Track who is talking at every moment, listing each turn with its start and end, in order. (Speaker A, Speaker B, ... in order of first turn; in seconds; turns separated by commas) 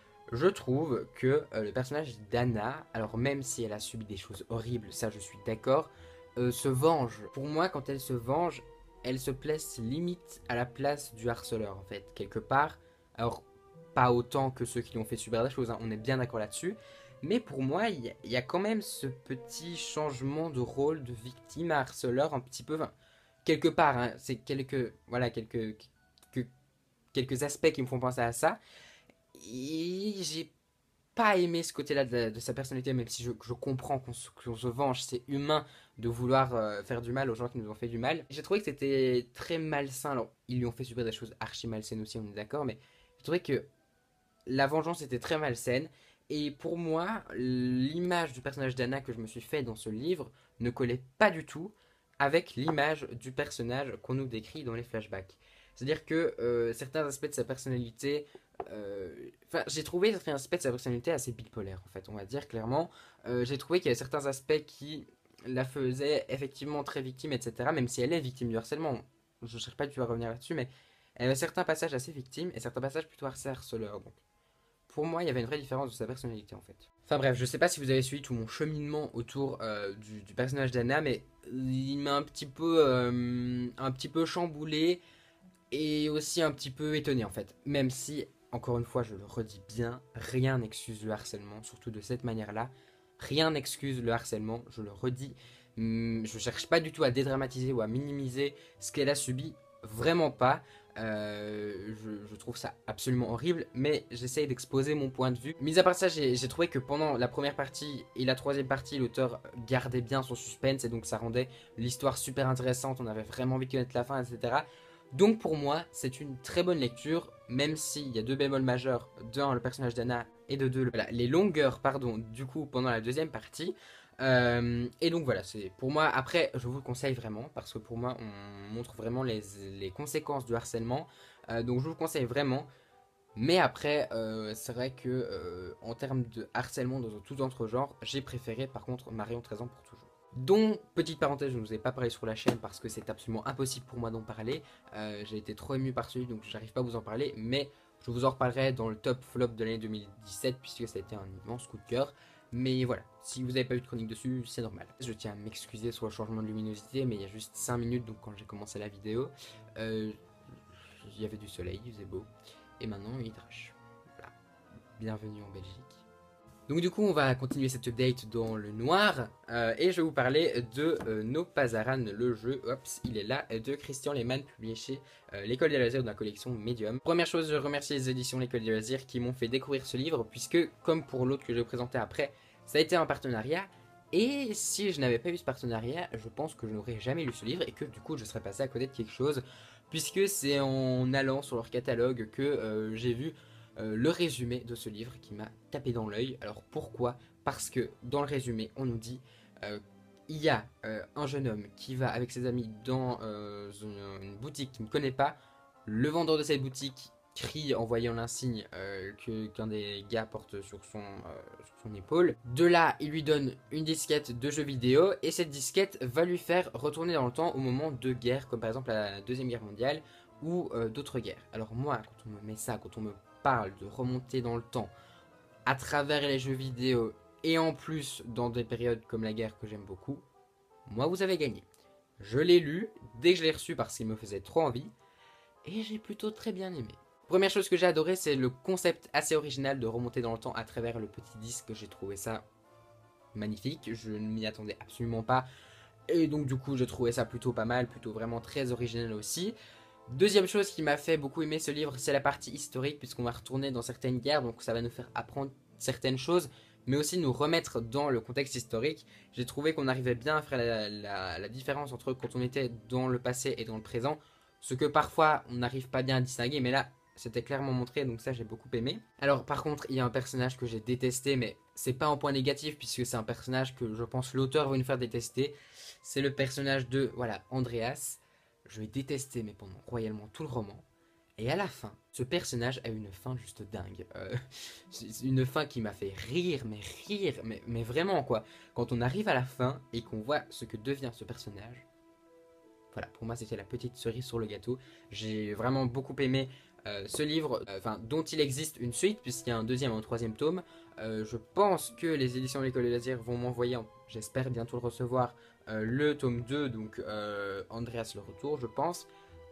Speaker A: 0.3-22.9, Speaker A: 23.4-26.5, Speaker A: 27.1-28.6, Speaker A: 29.3-30.5, Speaker A: 31.1-43.6, Speaker A: 44.5-74.2, Speaker A: 74.9-85.0, Speaker A: 85.7-132.7, Speaker A: 133.3-160.2, Speaker A: 160.8-164.3, Speaker A: 165.0-166.0, Speaker A: 166.7-224.9, Speaker A: 225.7-230.2, Speaker A: 230.8-231.6, Speaker A: 232.2-234.9, Speaker A: 235.6-242.4, Speaker A: 243.3-245.4, Speaker A: 246.1-249.6, Speaker A: 250.1-280.8, Speaker A: 281.4-291.8, Speaker A: 292.9-309.1